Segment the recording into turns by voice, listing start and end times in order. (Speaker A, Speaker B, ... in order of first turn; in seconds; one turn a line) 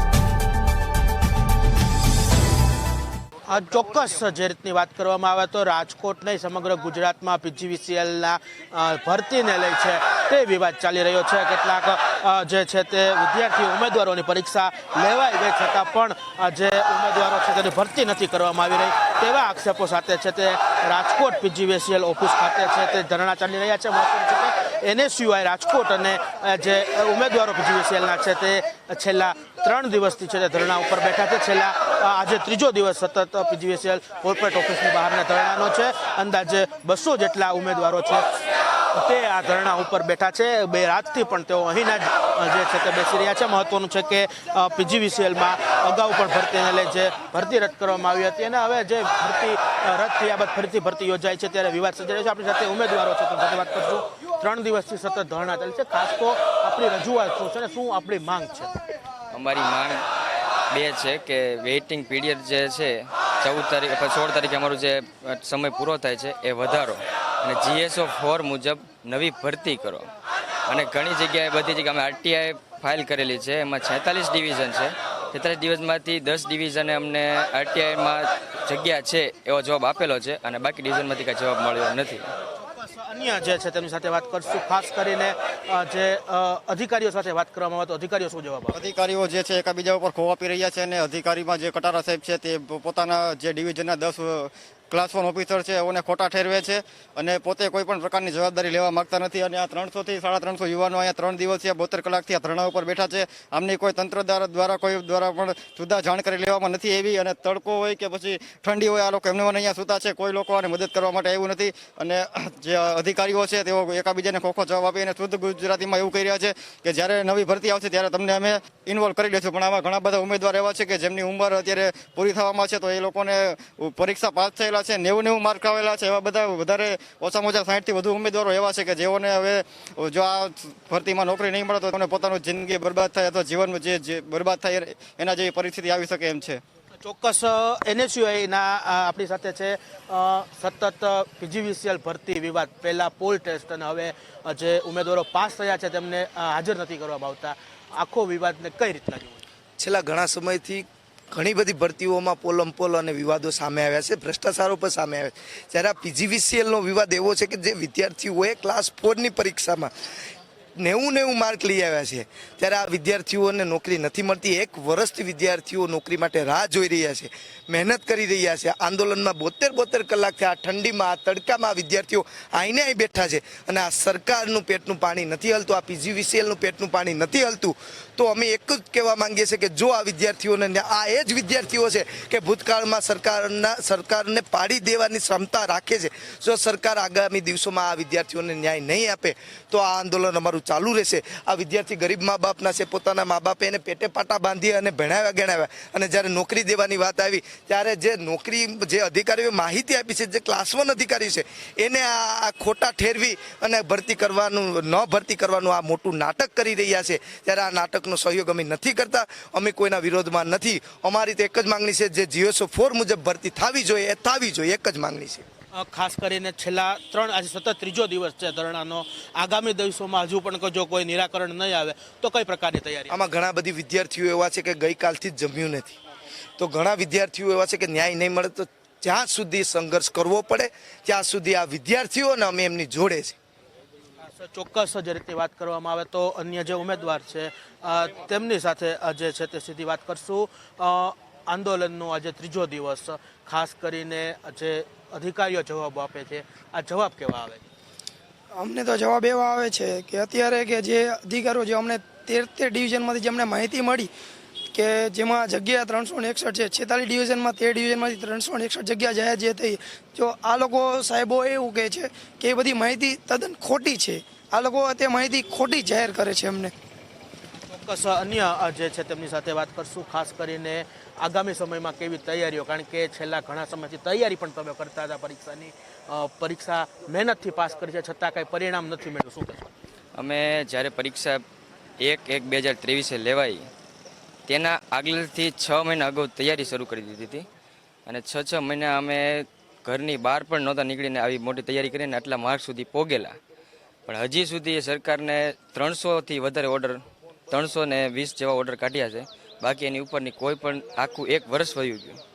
Speaker A: 3.5-38.3
Speaker A: 38.9-58.8
Speaker B: 59.3-60.0
Speaker B: 60.7-70.1
Speaker B: 70.7-82.2
Speaker A: 82.6-88.8
Speaker C: 88.7-136.6
Speaker A: 137.0-149.4
Speaker D: 149.8-159.9
Speaker D: 160.8-215.4
Speaker A: 215.7-223.2
Speaker D: 223.1-226.0
Speaker D: 226.6-233.4
Speaker A: 234.2-247.7
Speaker E: 248.5-254.1
Speaker E: 254.7-266.7
Speaker A: 267.7-279.7
Speaker B: 280.2-281.4
Speaker B: 282.0-283.7
Speaker B: 284.5-287.5
Speaker B: 288.1-293.4
Speaker B: 294.1-302.2